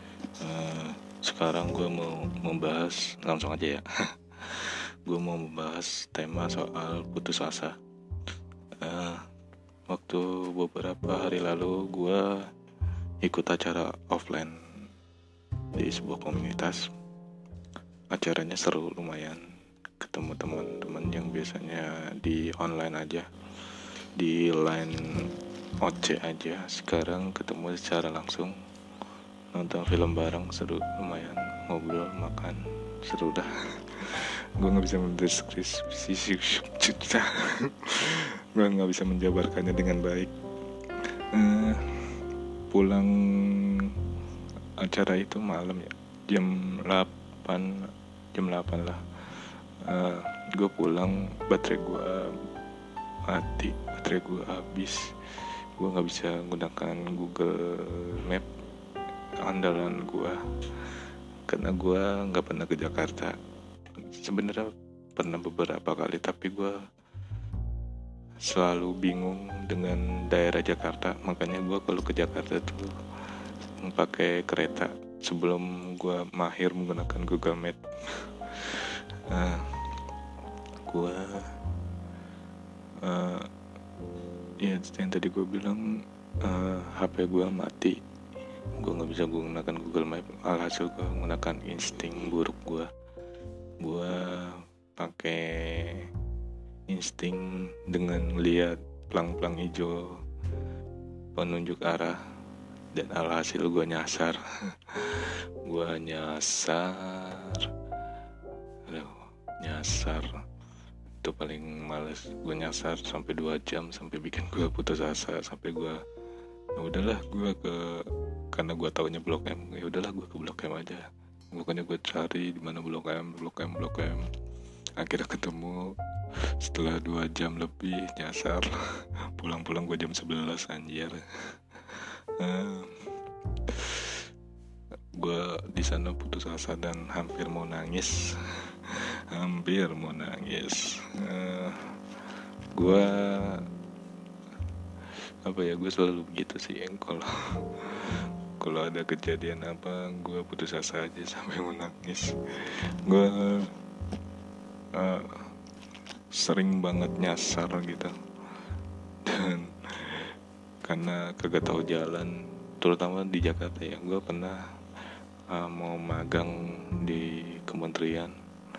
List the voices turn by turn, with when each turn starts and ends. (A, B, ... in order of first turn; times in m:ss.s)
0:00.4-0:07.8 A
0:08.8-0:09.2 A
0:09.9-0:12.5 A
0:13.2-0:14.6 A
0:15.7-0:16.8 A
0:18.1-0:19.4 A
0:20.0-0:23.3 A
0:24.2-0:25.3 A
0:25.8-0:28.5 A
0:29.5-0:40.3 A
0:41.2-0:44.0 A
0:44.8-0:52.3 A
0:53.3-0:58.4 A
0:59.4-1:01.0 A
1:01.5-1:03.4 A
1:04.1-1:06.8 A
1:08.5-1:19.8 A
1:20.8-1:21.5 A
1:23.0-1:23.4 A
1:24.6-1:25.8 A
1:26.4-1:28.0 A
1:28.8-1:32.9 A
1:33.8-1:36.1 A
1:36.9-1:40.2 A
1:41.3-1:42.2 A
1:42.9-1:47.7 A
1:48.9-1:50.3 A
1:51.2-1:56.0 A
1:56.8-2:04.2 A
2:05.0-2:05.9 A
2:06.5-2:13.1 A
2:13.6-2:14.2 A
2:15.1-2:21.9 A
2:22.7-2:23.6 A
2:25.4-2:33.7 A
2:34.9-2:35.5 A
2:36.3-2:38.1 A
2:39.2-2:40.3 A
2:40.8-2:44.6 A
2:45.5-2:48.3 A